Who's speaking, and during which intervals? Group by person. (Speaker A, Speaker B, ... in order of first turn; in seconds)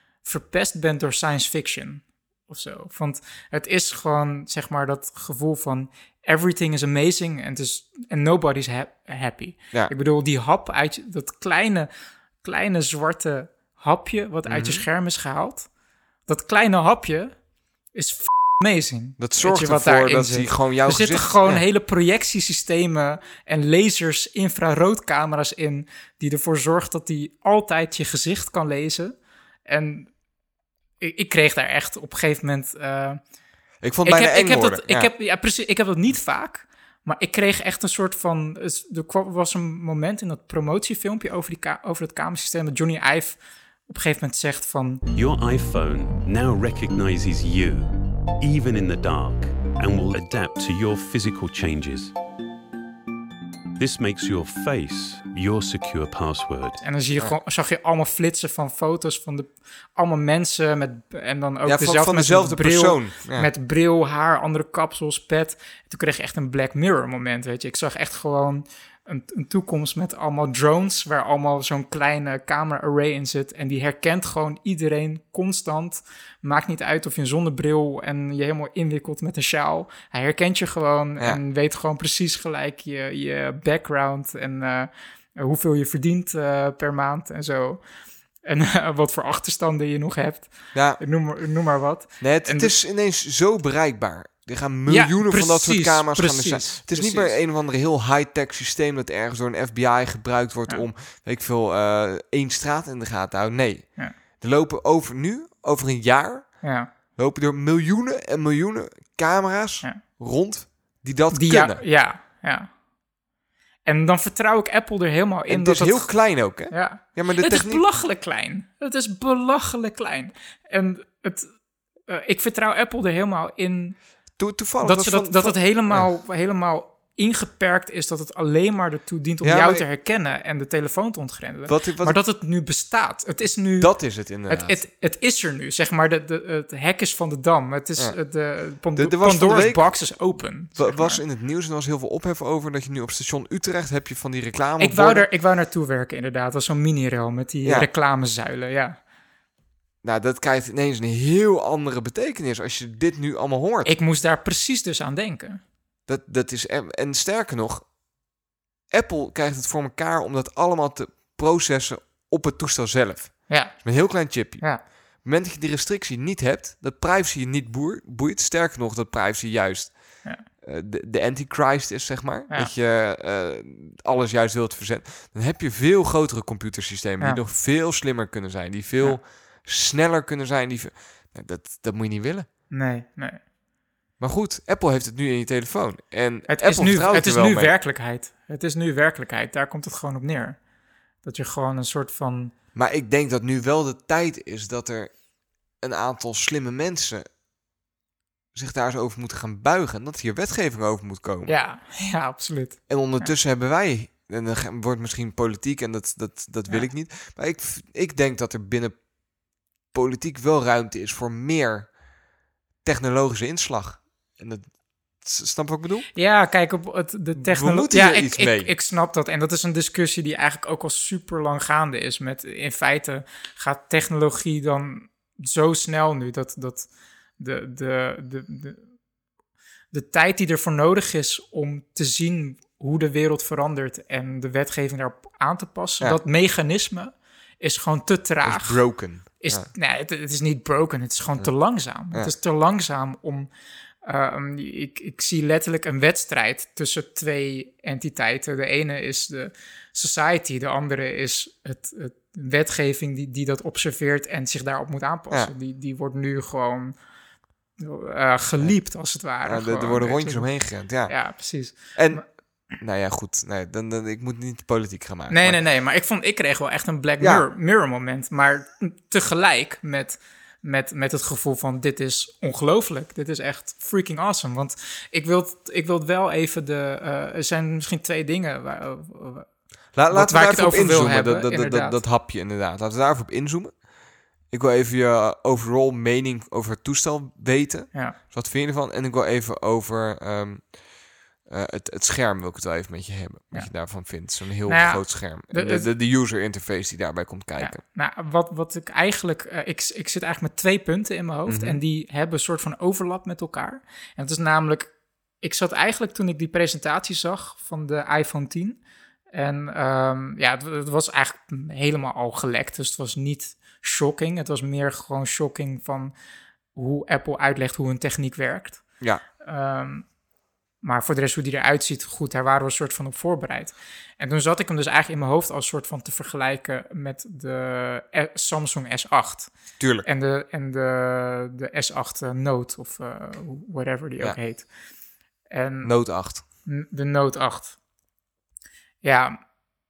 Speaker A: 0.2-11.9, 12.4-15.7, 16.3-17.4, 17.9-30.1, 31.0-33.2, 34.0-45.0, 56.8-87.9, 88.4-92.7, 94.9-97.3, 106.6-106.9, 111.3-112.7, 113.8-121.5, 122.1-124.1, 124.8-141.2, 144.8-149.0, 153.8-155.6, 163.5-164.8, 182.7-183.4, 186.5-190.6, 191.2-192.5, 201.5-203.3, 216.1-228.9, 229.9-243.5, 244.0-256.9, 257.8-262.2, 265.3-279.5, 280.1-282.0, 293.5-295.9, 297.6-308.8, 309.3-316.1, 316.7-320.1, 320.8-334.7, 335.5-337.8, 339.0-339.4
Speaker B: 14.4-14.8, 19.2-21.6, 33.8-35.1, 61.6-63.5, 90.7-91.0, 92.2-111.8, 115.5-117.8, 124.4-126.1, 129.4-129.8, 131.7-132.2, 133.8-134.8, 138.9-145.3, 147.6-147.9, 150.0-153.9, 156.1-157.9, 158.9-182.5, 184.2-187.7, 192.7-197.3, 198.5-201.6, 202.9-209.1, 209.9-212.0, 212.8-216.1, 217.4-218.7, 238.4-239.7, 258.6-258.9, 259.4-265.6, 267.2-267.4, 279.9-283.9, 284.4-290.8, 291.4-297.8, 301.5-301.8, 329.8-330.1, 335.8-336.4
Speaker C: 45.1-52.1, 53.8-56.8